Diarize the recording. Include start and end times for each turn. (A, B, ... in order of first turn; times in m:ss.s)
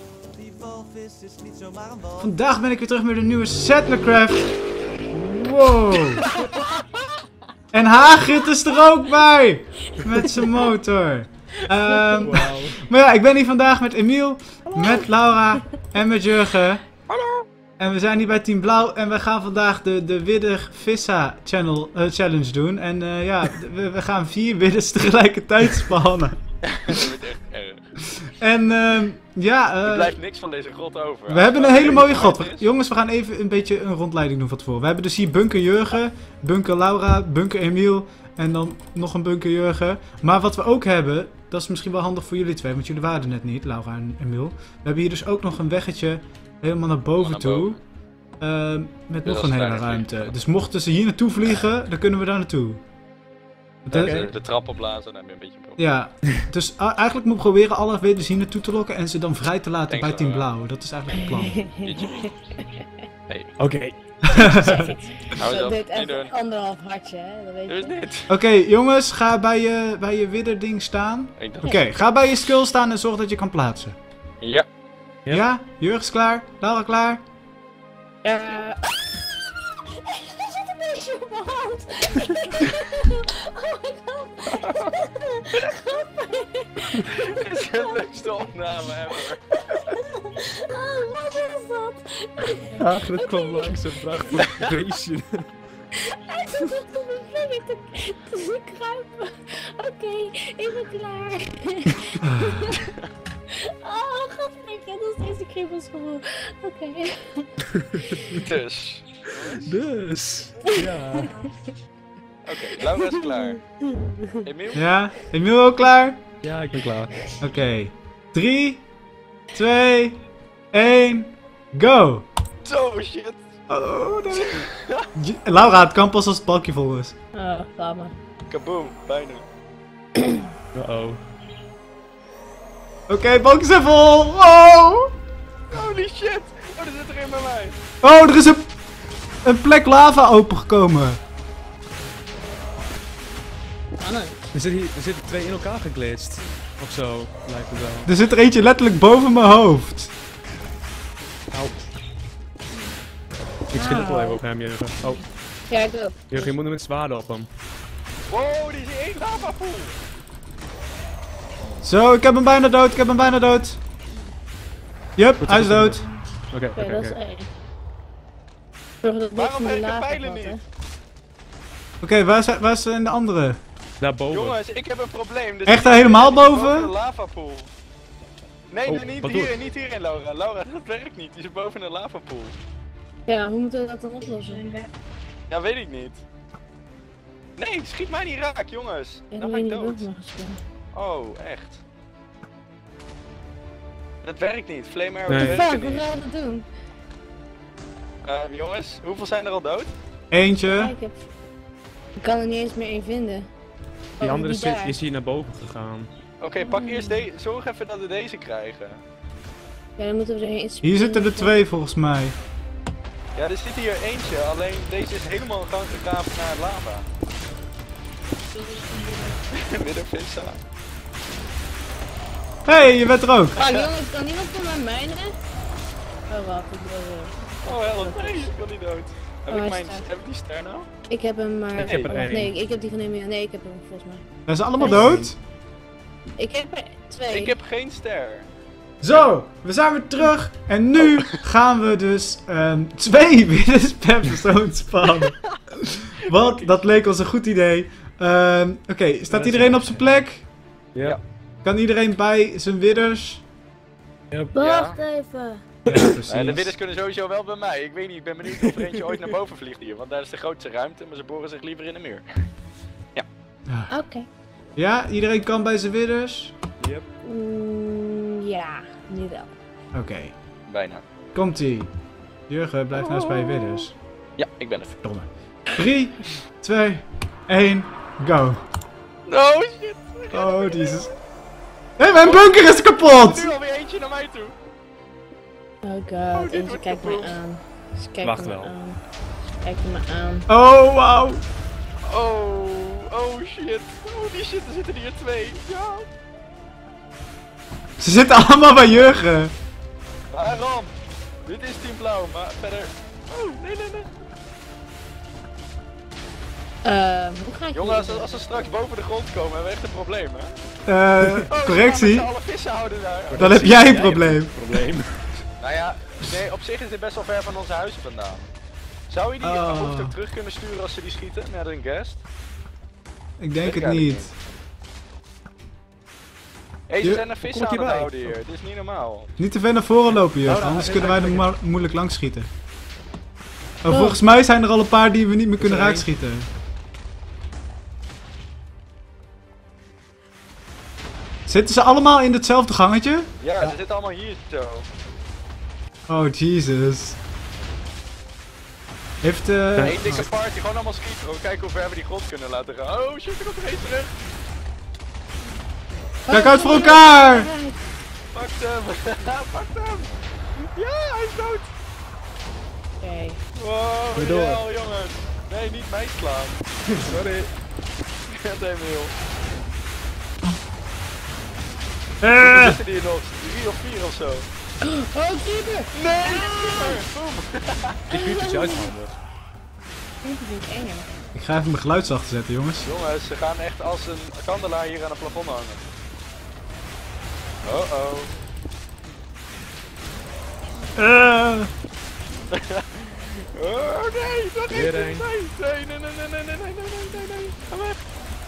0:00.3-0:02.3 A
0:02.2-0:04.5 B
0:05.1-0:06.2 B
0:07.7-0:16.8 B
0:12.2-0:12.8 C
0:17.1-0:17.5 D
0:17.8-0:26.4 B
0:26.7-0:27.9 D
0:28.4-0:30.1 B
0:29.8-0:32.7 D
0:31.3-0:47.8 B
0:47.2-0:47.8 D
0:48.4-0:52.8 B
0:49.2-0:50.4 D
0:53.8-0:54.2 B
0:53.9-0:54.3 C
0:53.9-0:55.8 D
0:55.8-1:01.7 B
0:59.9-1:00.5 D
1:01.4-1:02.8 E
1:01.8-1:02.3 D
1:03.6-1:04.0 C
1:04.2-1:04.9 B
1:04.3-1:08.0 E
1:05.4-1:06.3 D
1:07.7-1:08.3 D
1:08.3-1:14.0 B
1:11.4-1:11.8 D
1:14.4-1:14.7 D
1:15.3-1:17.2 B
1:18.2-1:19.3 E
1:20.0-1:28.1 E
1:27.0-1:29.8 D
1:29.7-1:33.8 E
1:32.8-1:35.5 C
1:34.4-1:34.7 D
1:36.0-1:42.8 E
1:42.2-1:42.6 B
1:42.7-1:43.0 D
1:43.6-1:47.5 E
1:48.0-1:48.4 E
1:48.4-1:49.8 D
1:49.6-1:51.3 C
1:50.7-1:51.5 E
1:52.4-1:53.6 D
1:52.8-1:54.3 E
1:54.4-1:54.8 D
1:54.7-1:56.2 B
1:56.4-1:57.2 C
1:57.4-1:58.8 B
1:59.5-2:00.2 B
2:00.7-2:02.3 B
2:02.6-2:03.5 D
2:03.7-2:07.1 B
2:04.3-2:05.1 D
2:07.3-2:08.1 E
2:08.5-2:09.4 D
2:10.7-2:11.2 C
2:13.1-2:15.1 B
2:15.7-2:17.8 D
2:18.0-2:18.7 B
2:19.4-2:21.2 B
2:24.0-2:24.4 E
2:24.5-2:28.1 C
2:28.0-2:30.1 B
2:31.5-2:31.9 C
2:33.7-2:35.2 C
2:33.7-2:34.4 E
2:35.0-2:36.5 E
2:36.3-2:37.5 C
2:38.3-2:40.0 D
2:41.8-2:43.8 B
2:45.2-2:46.0 B
2:45.4-2:47.2 C
2:46.7-2:47.5 E
2:49.0-2:50.6 E
2:49.3-2:50.6 D
2:52.0-2:53.6 B
2:54.0-2:54.6 C
2:54.3-2:57.7 D
2:55.6-2:56.9 B
2:58.7-3:02.6 D
2:58.8-2:59.5 C
3:03.3-3:04.8 E
3:05.5-3:06.2 D
3:07.6-3:10.0 D
3:09.3-3:10.6 E
3:10.9-3:11.8 D
3:14.2-3:15.9 D
3:15.3-3:16.0 C
3:15.3-3:16.7 E
3:18.2-3:19.9 D
3:20.3-3:20.9 B
3:20.6-3:21.2 E
3:22.2-3:23.5 E
3:24.2-3:24.9 E
3:24.2-3:26.1 C
3:26.4-3:29.0 D
3:26.6-3:27.2 E
3:30.0-3:31.6 E
3:30.8-3:32.4 B
3:33.3-3:37.0 D
3:38.5-3:39.3 E
3:39.5-3:40.6 D
3:42.6-3:43.6 B
3:43.6-3:45.4 E
3:43.6-3:43.9 D
3:46.3-3:48.5 E
3:47.6-3:50.9 D
3:49.5-3:50.0 E
3:51.1-3:54.2 E
3:51.7-3:52.5 C
3:54.5-3:55.4 B
3:54.8-3:55.2 E
3:54.8-3:55.3 C
3:56.4-3:57.5 E
3:57.3-3:58.5 D
3:59.0-4:10.4 B
3:59.1-3:59.3 D
4:06.3-4:06.8 D
4:09.3-4:10.2 C
4:11.6-4:13.4 B
4:14.3-4:14.6 C
4:14.5-4:15.6 E
4:14.5-4:15.0 D
4:15.8-4:16.7 B
4:15.9-4:16.2 C
4:16.3-4:22.2 D
4:23.7-4:23.9 B
4:23.9-4:24.3 E
4:24.8-4:26.5 B
4:26.8-4:27.0 C
4:27.2-4:29.5 E
4:29.9-4:30.3 B
4:30.6-4:31.0 D
4:31.3-4:31.9 B
4:32.5-4:33.9 B
4:32.9-4:33.8 D
4:34.4-4:35.0 D
4:35.0-4:38.6 B
4:39.2-4:41.1 D
4:40.3-4:41.1 B
4:42.0-4:43.5 B
4:42.1-4:44.5 D
4:45.8-4:49.0 E
4:46.3-4:47.4 D
4:48.2-4:48.7 C
4:49.6-4:50.5 E
4:50.5-4:51.4 B
4:52.1-4:56.1 D
4:58.0-4:59.5 B
5:00.3-5:00.9 D
5:01.4-5:04.1 D
5:06.8-5:08.7 E
5:07.7-5:10.5 D
5:10.8-5:12.3 B
5:11.5-5:13.6 D
5:13.3-5:15.3 C
5:13.4-5:14.5 B
5:15.6-5:18.5 D
5:19.1-5:22.2 D
5:19.4-5:20.1 B
5:23.4-5:24.3 B
5:23.6-5:24.3 D
5:26.9-5:29.3 D
5:27.4-5:28.4 C
5:29.4-5:32.5 B
5:30.4-5:31.5 C
5:33.8-5:36.5 B
5:33.9-5:34.2 E
5:35.6-5:36.0 C
5:41.5-5:43.7 B
5:43.4-5:44.8 D
5:46.1-5:47.2 B
5:49.2-5:50.3 B
5:49.7-5:50.3 C
5:49.8-5:54.2 D
5:56.2-5:57.8 E
5:56.3-5:57.5 B
5:58.3-6:00.1 D
6:00.7-6:01.7 D
6:03.0-6:03.4 E
6:03.5-6:06.6 D
6:04.2-6:04.6 C
6:07.0-6:07.5 C
6:08.3-6:09.1 D
6:12.2-6:12.8 B
6:12.4-6:14.5 D
6:14.8-6:17.0 E
6:15.9-6:18.1 D
6:18.1-6:18.9 E
6:18.1-6:19.2 C
6:20.2-6:21.1 E
6:21.3-6:22.9 B
6:22.8-6:25.8 D
6:27.6-6:28.3 D
6:31.0-6:31.7 B
6:32.5-6:32.9 D
6:33.5-6:38.0 D
6:34.7-6:35.2 C